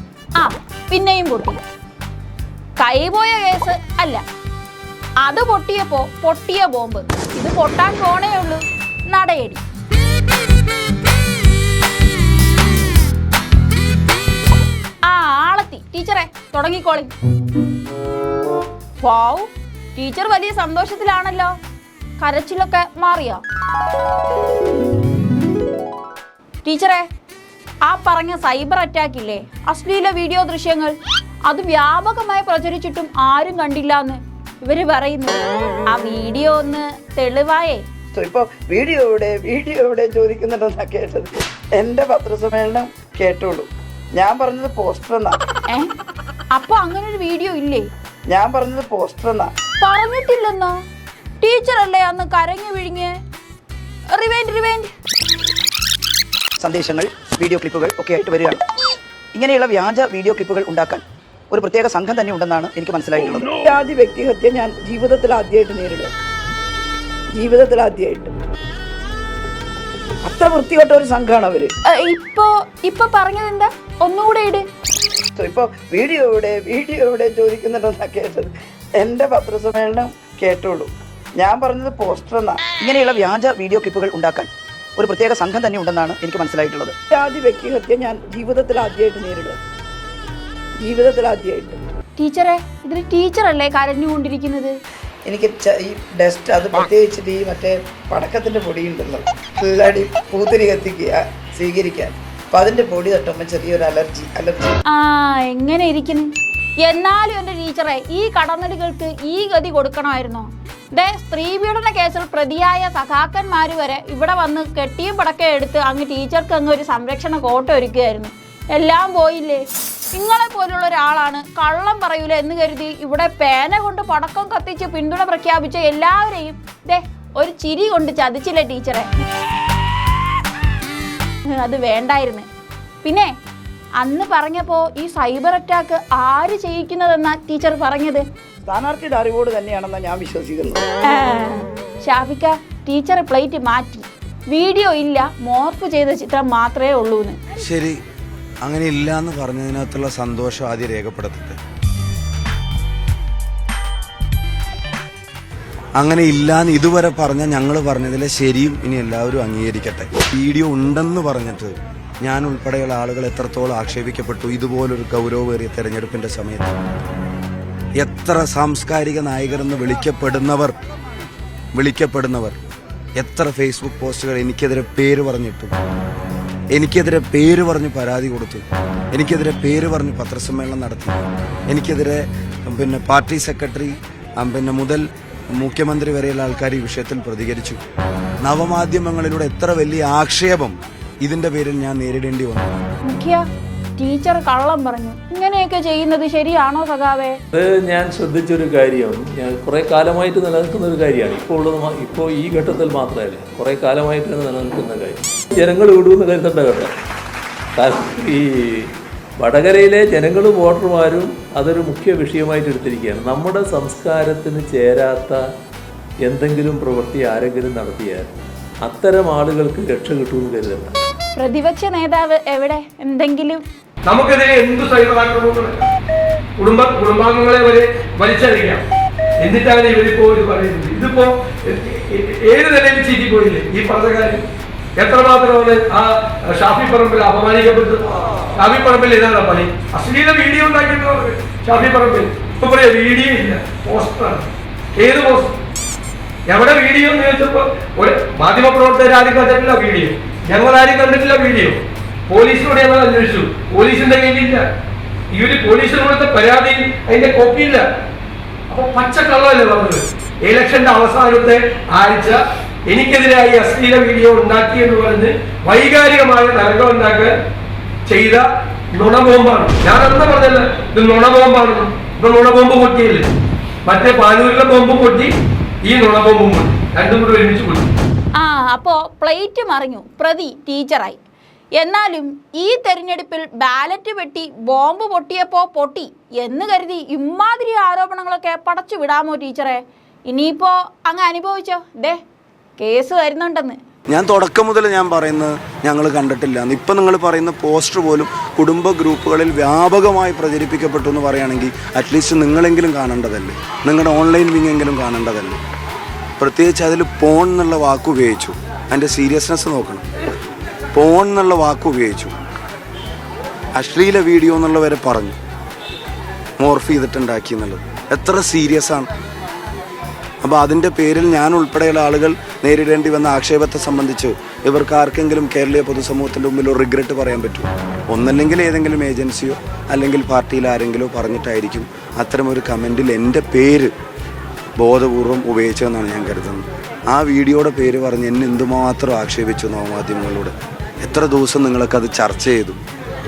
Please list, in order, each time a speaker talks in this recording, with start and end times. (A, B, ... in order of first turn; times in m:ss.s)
0:00.4-0:01.6 A
0:02.8-0:04.2 A
0:05.2-0:09.6 A
0:15.1-0:17.2 A
0:19.0-0:21.6 A
0:22.2-0:23.4 A
0:26.6-0:27.1 A
0:27.9-0:31.0 A
0:31.5-0:37.8 A
0:38.1-0:45.4 B
0:46.5-0:47.9 A
0:48.3-0:49.5 B
0:49.8-0:50.8 A
0:51.4-0:53.2 A
0:54.1-0:54.9 A
0:56.6-0:58.6 B
0:59.4-1:06.1 B
1:07.4-1:08.3 B
1:10.2-1:11.7 B
1:11.9-1:14.6 A
1:15.4-1:29.6 B
1:30.8-1:31.8 B
1:32.2-1:34.8 A
1:35.3-1:44.8 B
1:44.9-1:46.3 A
1:46.8-2:09.1 A
2:11.5-2:12.5 A
2:13.0-2:13.3 A
2:14.0-2:18.2 A
2:18.7-2:20.8 B
2:21.1-2:27.4 A
2:27.6-2:28.0 C
2:28.6-2:31.6 C
2:36.0-2:46.8 C
2:48.0-2:50.8 C
2:51.8-2:52.6 C
2:53.2-2:55.8 C
2:56.7-3:07.8 C
3:08.4-3:12.8 C
3:13.1-3:13.4 A
3:14.0-3:17.4 A
3:17.5-3:26.9 D
3:27.8-3:35.4 D
3:36.2-3:41.0 D
3:41.4-3:43.6 A
3:44.1-3:45.8 E
3:46.6-3:48.8 E
3:49.4-3:54.4 E
3:55.0-3:58.0 E
3:58.6-4:05.6 E
4:06.5-4:14.6 E
4:15.3-4:17.8 E
4:18.7-4:27.3 E
4:28.1-4:33.3 E
4:33.9-4:35.3 E
4:35.8-4:37.9 E
4:38.4-4:41.2 A
4:41.8-4:52.2 A
4:52.8-4:53.8 A
4:54.1-5:05.6 C
5:06.4-5:10.1 C
5:10.9-5:12.4 C
5:13.8-5:15.4 C
5:16.6-5:19.1 C
5:20.4-5:33.9 C
5:34.8-5:42.8 C